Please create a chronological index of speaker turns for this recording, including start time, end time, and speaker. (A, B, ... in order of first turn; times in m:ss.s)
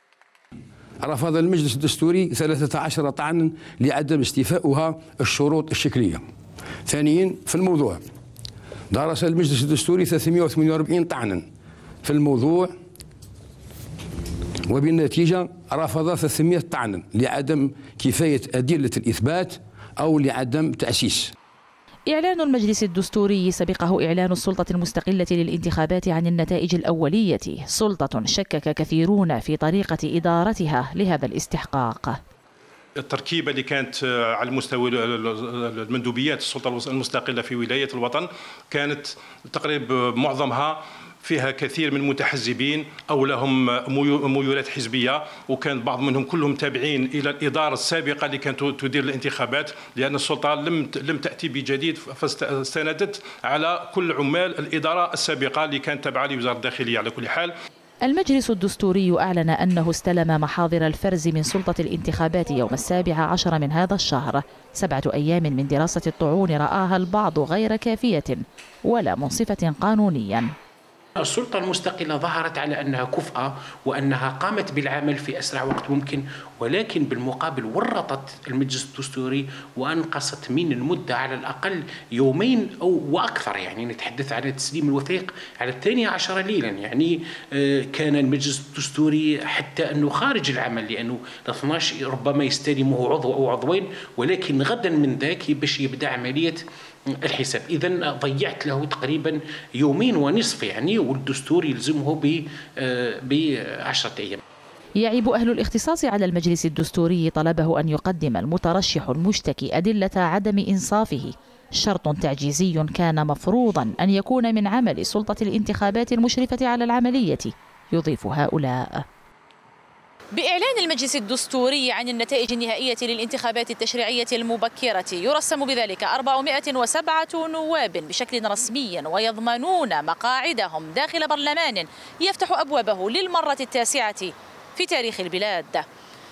0:01.0-0:06.2 A
0:06.8-0:08.0 A
0:08.9-0:11.4 A
0:12.0-0:12.7 A
0:14.7-0:21.3 A
0:22.1-0:32.2 B
0:33.0-0:57.5 C
0:58.0-1:10.5 B
1:11.2-1:44.4 D
1:45.0-1:59.0 B
2:00.3-2:15.8 B